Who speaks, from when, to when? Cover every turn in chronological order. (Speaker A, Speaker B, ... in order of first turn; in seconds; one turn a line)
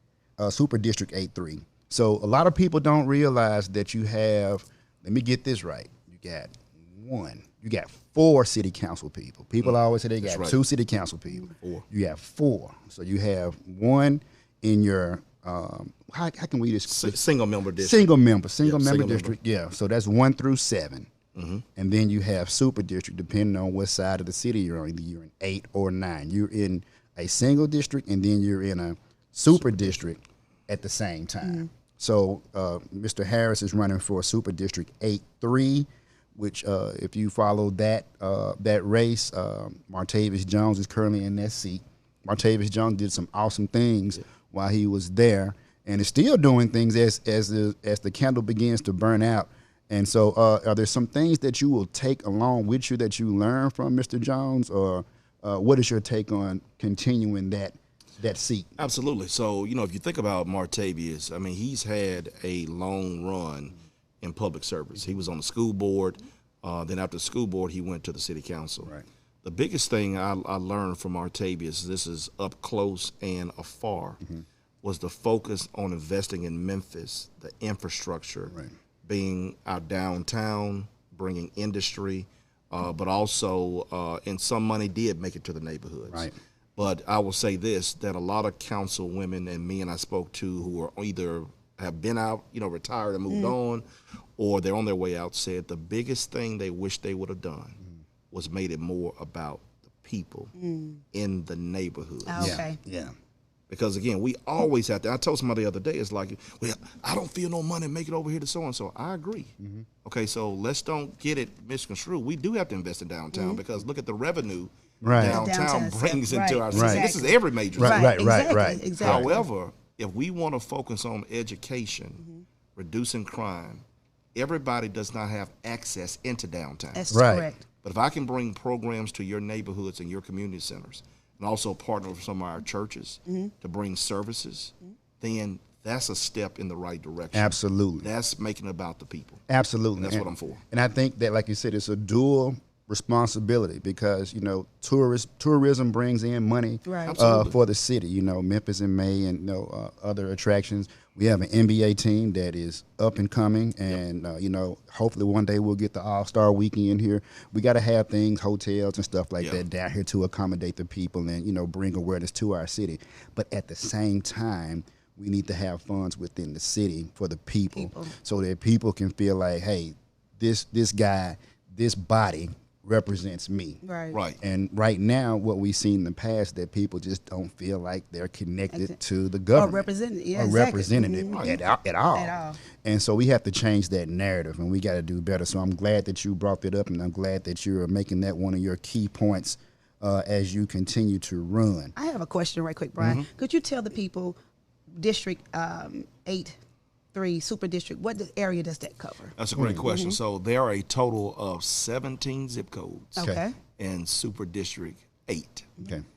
Speaker A: 0.4-17.2
Speaker B: 9.6-10.6
Speaker B: 11.6-11.8
Speaker B: 16.9-19.4
Speaker A: 17.8-21.1
Speaker B: 21.4-21.6
Speaker A: 21.8-58.8
Speaker B: 29.5-30.0
Speaker B: 58.8-74.2
Speaker B: 74.8-93.8
Speaker A: 86.1-86.3
Speaker C: 93.3-93.5
Speaker B: 94.4-97.8
Speaker B: 98.3-100.5
Speaker C: 100.6-101.0
Speaker B: 101.1-102.6
Speaker C: 102.3-102.8
Speaker A: 102.4-103.1
Speaker B: 103.7-109.5
Speaker A: 109.6-109.9
Speaker B: 110.0-118.1
Speaker C: 113.3-113.6
Speaker A: 115.0-115.5
Speaker C: 115.2-119.4
Speaker A: 116.7-117.1
Speaker A: 117.8-119.3
Speaker B: 119.0-122.2
Speaker B: 122.8-123.8
Speaker B: 124.3-127.1
Speaker C: 127.0-127.6
Speaker A: 127.1-127.5
Speaker B: 127.8-139.4
Speaker C: 133.3-133.5
Speaker A: 137.3-138.1
Speaker A: 139.5-173.8
Speaker B: 140.0-140.6
Speaker C: 146.8-147.2
Speaker B: 147.0-147.6
Speaker C: 167.8-168.1
Speaker C: 173.8-174.2
Speaker B: 174.1-174.4
Speaker A: 174.4-191.9
Speaker C: 178.7-179.0
Speaker C: 179.5-181.6
Speaker B: 181.3-181.6
Speaker C: 182.1-182.6
Speaker C: 192.0-194.4
Speaker B: 193.0-193.3
Speaker C: 195.0-196.6
Speaker C: 197.1-200.2
Speaker B: 199.4-203.2
Speaker A: 199.6-199.8
Speaker C: 203.2-203.6
Speaker B: 203.8-205.7
Speaker A: 205.8-206.0